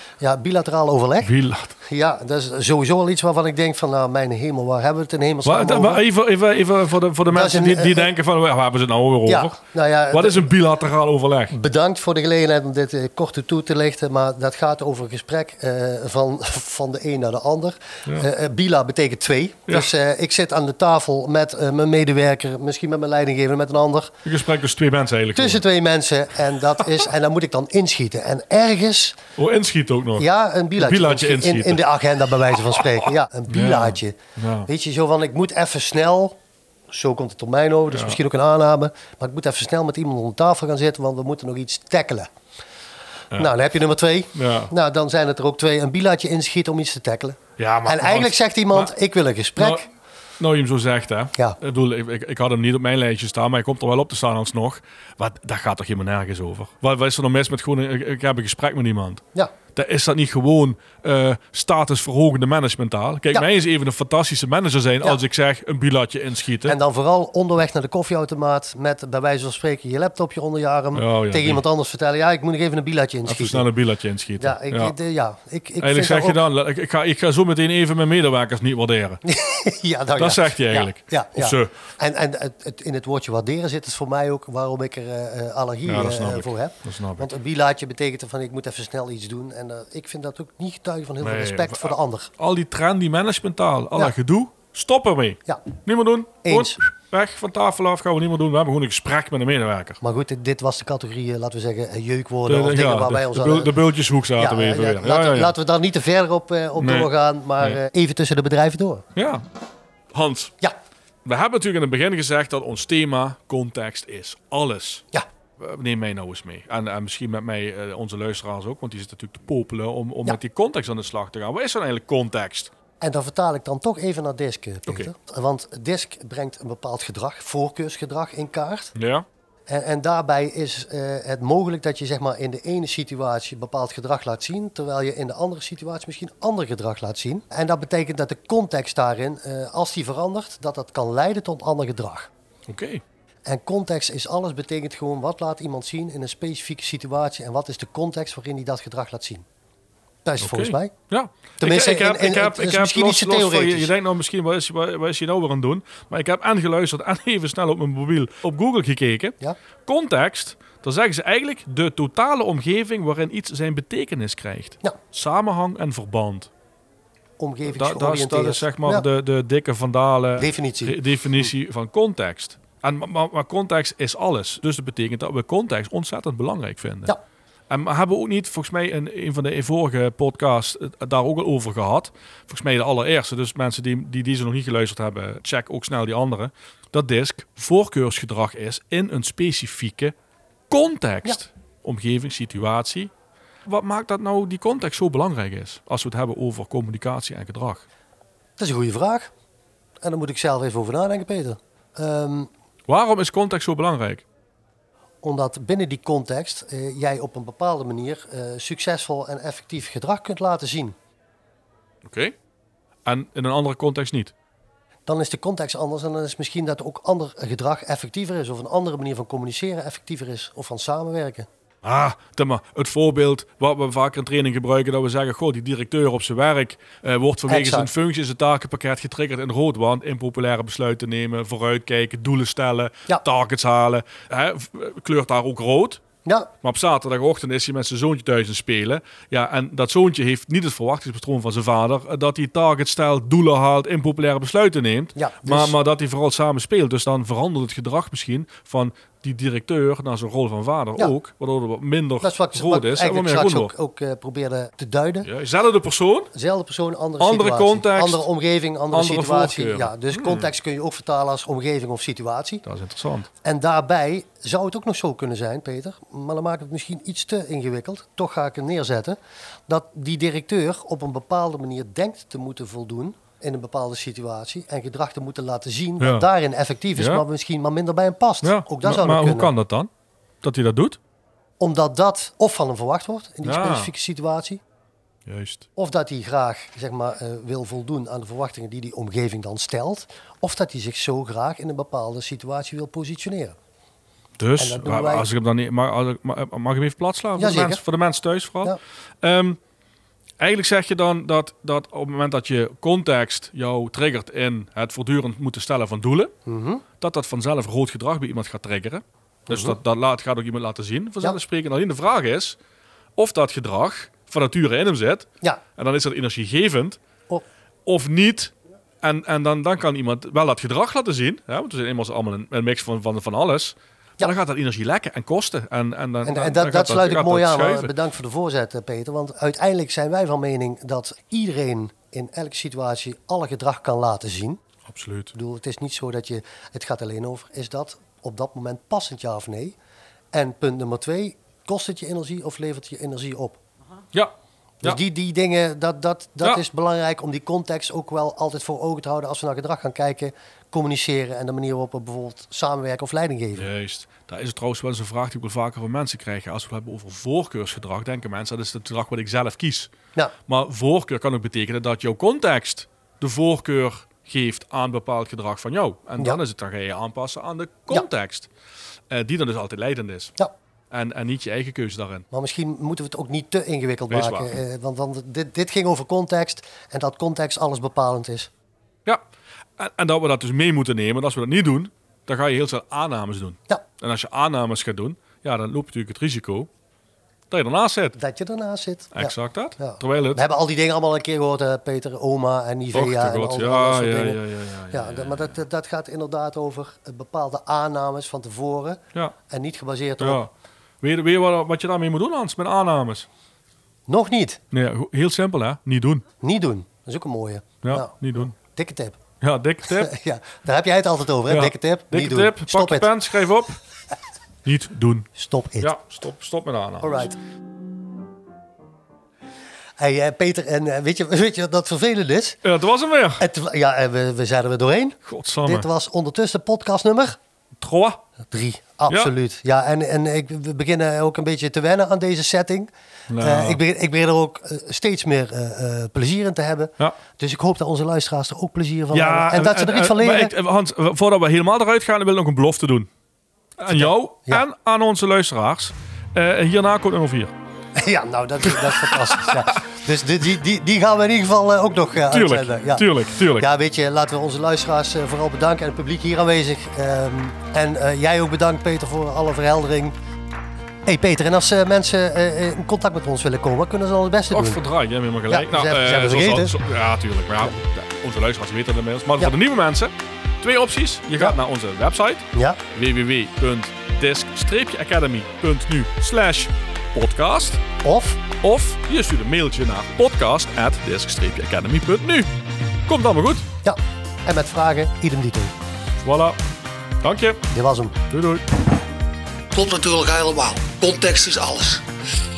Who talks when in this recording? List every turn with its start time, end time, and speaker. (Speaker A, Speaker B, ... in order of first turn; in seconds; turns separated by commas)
Speaker A: 0.2-1.3, Speaker B: 1.2-1.7, Speaker A: 1.8-6.0, Speaker B: 5.4-9.6, Speaker A: 7.3-8.1, Speaker A: 9.3-10.5, Speaker B: 10.1-11.5, Speaker A: 11.5-24.1, Speaker B: 24.2-25.6, Speaker A: 25.3-29.2, Speaker B: 29.4-31.8, Speaker A: 30.2-36.4, Speaker B: 32.5-32.8, Speaker B: 33.5-34.7, Speaker A: 36.9-42.3, Speaker B: 37.9-38.2, Speaker A: 43.3-49.9, Speaker B: 44.3-44.7, Speaker B: 47.6-48.9, Speaker B: 49.6-49.8, Speaker B: 50.4-59.2, Speaker B: 59.7-66.8, Speaker A: 66.6-73.7, Speaker B: 70.9-71.6, Speaker B: 73.2-74.9, Speaker A: 74.4-76.4, Speaker B: 75.8-79.2, Speaker A: 79.2-92.3, Speaker B: 80.2-81.7, Speaker B: 85.8-87.3, Speaker B: 91.2-100.0, Speaker A: 96.4-96.8, Speaker A: 100.0-103.8, Speaker B: 102.5-105.5, Speaker A: 104.4-109.0, Speaker B: 106.8-107.8, Speaker B: 109.1-109.4, Speaker B: 110.1-110.5, Speaker B: 111.2-115.0, Speaker B: 115.6-122.7, Speaker A: 123.0-128.9, Speaker B: 128.9-129.2, Speaker A: 129.7-142.3, Speaker B: 142.7-143.0, Speaker A: 143.4-149.4, Speaker A: 150.2-150.9, Speaker B: 150.4-166.5, Speaker A: 151.6-153.9, Speaker A: 167.4-169.1, Speaker B: 167.7-177.1, Speaker A: 170.4-171.5, Speaker B: 177.7-190.1, Speaker B: 190.7-193.1, Speaker B: 193.6-197.8, Speaker A: 198.6-199.3, Speaker A: 200.0-202.5, Speaker B: 202.9-204.2, Speaker A: 205.2-210.9, Speaker B: 212.0-212.4, Speaker B: 213.0-214.3, Speaker A: 215.1-221.5, Speaker B: 221.8-236.0, Speaker A: 227.5-227.9, Speaker A: 236.2-236.5, Speaker B: 236.6-253.7, Speaker A: 245.2-245.7, Speaker A: 252.2-255.3, Speaker B: 255.2-256.3, Speaker A: 256.3-262.6, Speaker B: 257.2-258.2, Speaker B: 258.9-260.5, Speaker B: 262.6-263.3, Speaker A: 263.4-279.5, Speaker B: 276.0-276.3, Speaker B: 276.9-277.2, Speaker B: 278.4-279.9, Speaker B: 280.4-281.0, Speaker A: 281.6-284.6, Speaker B: 283.4-283.9, Speaker B: 285.2-285.7, Speaker A: 285.8-293.6, Speaker B: 294.4-299.6, Speaker A: 294.6-295.3, Speaker A: 297.4-297.8, Speaker B: 300.4-306.3, Speaker A: 306.4-306.8, Speaker B: 307.0-312.6, Speaker A: 309.5-309.8, Speaker B: 313.1-317.0, Speaker B: 317.9-327.9, Speaker A: 326.2-334.6, Speaker B: 334.8-335.3, Speaker A: 335.3-339.8, Speaker A: 340.3-343.6, Speaker B: 344.1-345.0, Speaker A: 344.8-353.7, Speaker B: 353.6-359.9, Speaker B: 360.5-368.5, Speaker B: 369.1-370.4, Speaker B: 370.9-372.2, Speaker A: 372.3-378.5, Speaker B: 374.1-374.5, Speaker B: 379.8-386.7, Speaker B: 387.5-388.2, Speaker A: 388.1-400.4, Speaker B: 389.1-390.4, Speaker B: 392.9-395.6, Speaker B: 400.2-400.5, Speaker B: 401.0-403.3, Speaker A: 404.1-404.6, Speaker B: 404.7-406.2, Speaker A: 406.4-409.2, Speaker B: 407.8-408.5, Speaker B: 409.4-410.1, Speaker A: 409.9-413.1, Speaker B: 411.5-413.8, Speaker B: 414.6-415.3, Speaker A: 415.4-415.9, Speaker B: 415.8-417.3, Speaker A: 417.0-417.4, Speaker A: 420.0-422.6, Speaker B: 422.6-423.4, Speaker A: 423.4-427.4, Speaker B: 425.2-425.9, Speaker B: 427.8-428.2, Speaker A: 428.5-440.5, Speaker B: 433.3-433.8, Speaker B: 439.1-443.1, Speaker B: 443.8-447.5, Speaker A: 443.9-444.6, Speaker A: 447.9-460.1, Speaker B: 448.7-449.8, Speaker B: 452.3-453.7, Speaker A: 461.1-464.8, Speaker B: 464.5-477.8, Speaker A: 465.5-466.7, Speaker A: 472.5-472.8, Speaker A: 478.0-478.4, Speaker B: 478.6-482.5, Speaker B: 483.1-483.6, Speaker A: 483.8-485.7, Speaker B: 486.2-486.6, Speaker B: 487.2-487.6, Speaker A: 487.7-488.1, Speaker B: 488.2-488.6, Speaker C: 489.7-492.0